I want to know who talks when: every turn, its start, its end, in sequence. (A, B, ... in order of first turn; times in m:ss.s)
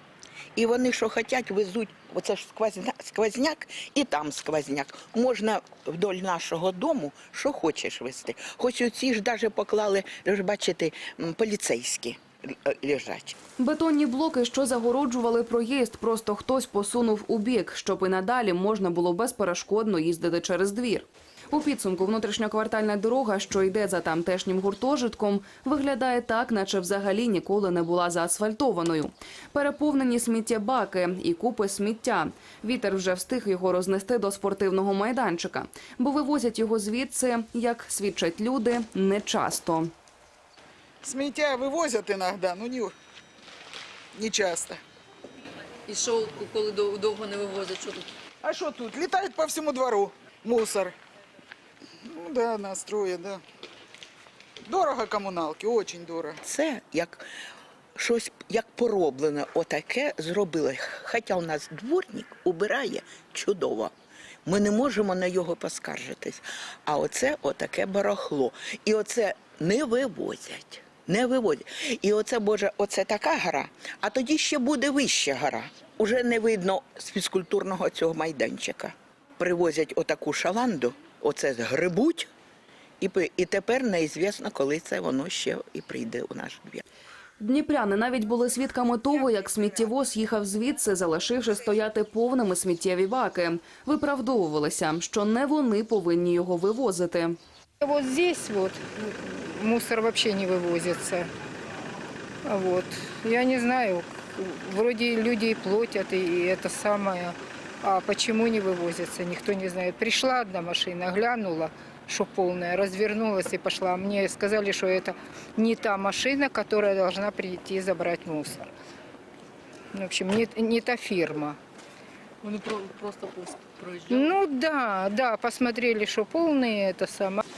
0:00.6-0:13.4 A
0:13.6-0:39.9 B
0:41.0-0:42.9 C
0:44.1-0:44.8 C
0:45.9-0:48.1 D
0:48.4-0:51.0 C
0:52.0-0:53.4 C
0:54.6-0:56.4 C
0:56.4-0:57.2 A
0:58.0-1:03.9 A
1:04.4-1:22.3 A
1:23.0-1:26.8 A
1:27.4-1:37.4 B
1:37.8-1:41.3 E
1:42.4-1:58.7 E
1:59.9-2:01.6 E
2:02.4-2:04.4 D
2:04.1-2:07.4 E